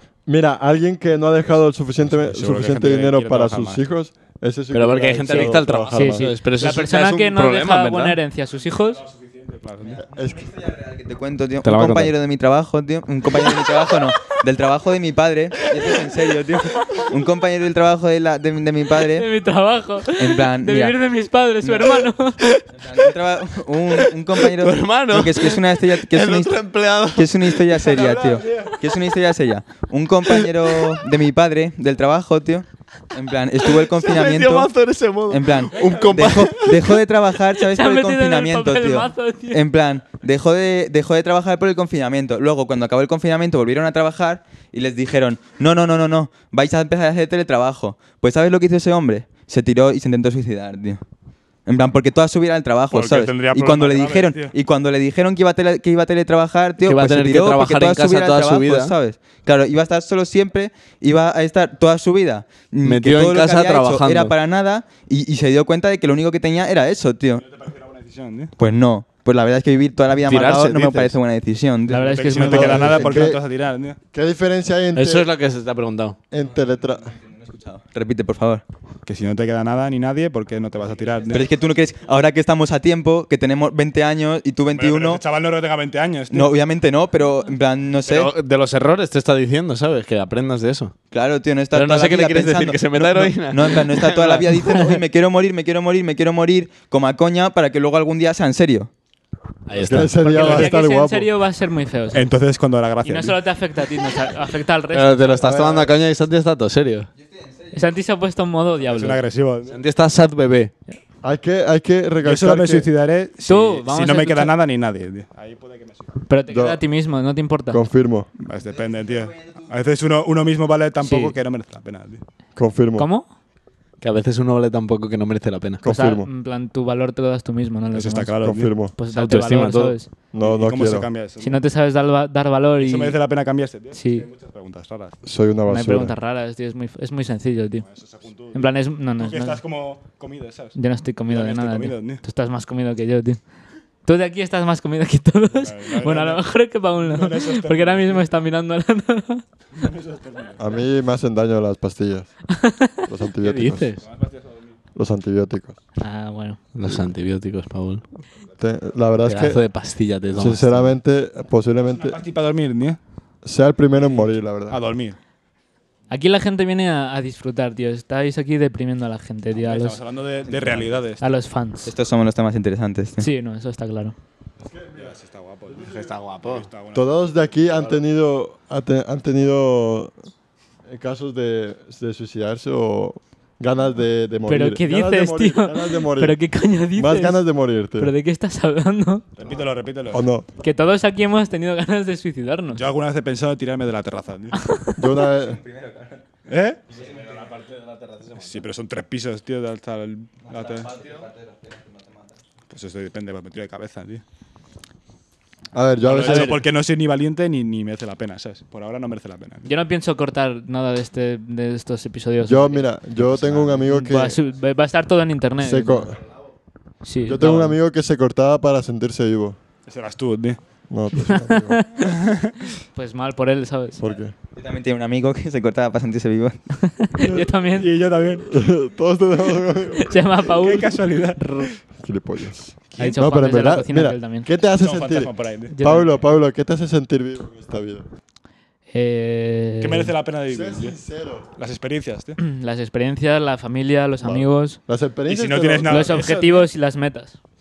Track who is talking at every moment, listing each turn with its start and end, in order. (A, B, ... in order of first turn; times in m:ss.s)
0:00.3-0:06.3 A
0:02.0-0:03.8 B
0:04.7-0:08.2 C
0:05.3-0:09.0 D
0:08.9-0:10.0 B
0:10.1-0:10.5 A
0:10.2-0:19.3 E
0:11.6-0:12.1 C
0:19.0-0:22.4 D
0:20.2-0:21.0 E
0:21.6-0:22.1 E
0:22.6-0:23.1 C
0:22.7-0:26.6 E
0:23.9-0:27.7 C
0:27.1-0:34.7 E
0:27.8-0:28.8 B
0:30.3-0:31.0 C
0:33.6-0:37.0 C
0:35.3-0:51.0 E
0:35.8-0:36.1 B
0:37.5-0:39.6 D
0:51.7-1:07.4 E
0:52.9-0:54.6 B
0:56.8-0:59.0 C
1:02.8-1:04.3 C
1:07.4-1:08.5 B
1:08.6-1:12.1 E
1:10.3-1:11.2 C
1:11.9-1:13.3 D
1:11.9-1:14.0 B
1:12.4-1:13.4 A
1:14.1-1:15.3 A
1:15.0-1:16.2 C
1:16.3-1:17.1 A
1:17.3-1:18.6 E
1:19.1-1:21.5 B
1:21.3-1:25.2 E
1:24.7-1:26.5 B
1:26.3-1:28.3 E
1:28.1-1:30.9 C
1:31.1-1:38.9 E
1:31.7-1:34.8 C
1:39.7-1:40.6 C
1:39.8-1:41.3 A
1:40.0-1:42.3 D
1:42.1-1:43.4 B
1:43.0-1:45.5 D
1:44.9-1:47.1 C
1:45.4-1:46.0 A
1:47.7-1:49.2 D
1:48.9-1:49.8 B
1:49.7-1:50.7 C
1:51.2-1:52.9 A
1:52.2-1:56.1 B
1:53.5-1:54.6 D
1:56.3-1:57.8 D
1:56.5-1:56.8 A
1:57.7-1:58.3 A
1:58.4-2:02.2 B
2:01.0-2:01.4 D
2:02.6-2:03.1 A
2:03.0-2:03.3 D
2:04.0-2:05.8 C
2:05.8-2:06.3 A
2:05.8-2:08.4 D
2:07.9-2:08.7 B
2:08.4-2:08.9 A
2:08.9-2:10.1 D
2:09.1-2:09.9 C
2:09.3-2:11.6 B
2:10.3-2:11.1 A
2:11.4-2:13.2 D
2:12.8-2:15.2 B
2:13.9-2:14.3 D
2:15.2-2:16.1 A
2:15.7-2:17.9 D
2:17.8-2:22.2 B
2:18.5-2:19.6 D
2:20.8-2:23.4 D
2:24.0-2:29.4 D
2:25.5-2:28.3 B
2:29.8-2:30.6 B
2:30.6-2:32.4 A
2:32.5-2:33.0 D
2:33.0-2:33.9 A
2:33.4-2:34.0 C
2:34.0-2:34.8 B
2:35.0-2:35.8 A
2:36.0-2:36.6 D
2:36.7-2:38.0 C
2:38.6-2:39.6 A
2:39.2-2:41.0 C
2:40.3-2:42.2 A
2:41.9-2:43.0 B
2:43.4-2:44.8 A
2:44.0-2:45.2 B
2:46.1-2:50.0 D
2:49.6-2:51.2 B
2:51.2-2:51.9 D
2:51.8-2:53.3 E
2:53.2-2:54.2 D
2:54.6-2:55.1 A
2:55.0-2:57.1 B
2:55.7-2:56.1 A
2:55.8-2:56.7 C
2:56.9-3:00.1 A
3:00.9-3:06.4 A
3:04.5-3:07.4 D
3:07.0-3:08.1 A
3:08.0-3:09.2 D
3:09.4-3:10.2 B
3:10.1-3:10.5 A
3:10.6-3:12.8 D
3:12.7-3:14.6 B
3:14.5-3:15.0 D
3:15.0-3:15.6 A
3:15.6-3:16.2 E
3:16.5-3:16.8 B
3:17.1-3:18.6 C
3:18.4-3:21.0 B
3:21.0-3:21.8 E
3:22.7-3:24.2 B
3:25.7-3:26.6 A
3:26.0-3:29.7 B
3:26.2-3:26.6 D
3:29.7-3:32.8 D
3:32.4-3:34.4 A
3:33.4-3:33.7 B
3:33.6-3:36.2 D
3:35.6-3:36.2 A
3:37.0-3:37.8 D
3:37.3-3:39.6 A
3:39.9-3:40.6 B
3:40.9-3:41.9 A
3:41.2-3:42.1 D
3:42.0-3:42.6 B
3:42.9-3:44.0 D
3:44.0-3:44.3 A
3:44.6-3:46.6 E
3:46.9-3:47.9 D
3:47.2-3:47.5 A
3:47.8-3:48.5 B
3:48.5-3:50.2 A
3:50.0-3:51.7 D
3:50.5-3:51.7 B
3:52.0-3:58.0 A
3:53.0-3:54.5 D
3:54.8-3:55.7 B
3:55.7-3:56.2 D
3:58.9-4:00.1 D
3:59.8-4:01.0 B
4:00.5-4:01.5 A
4:01.6-4:02.4 B
4:02.4-4:04.8 D
4:04.2-4:06.2 A
4:05.3-4:06.6 B
4:05.9-4:07.4 D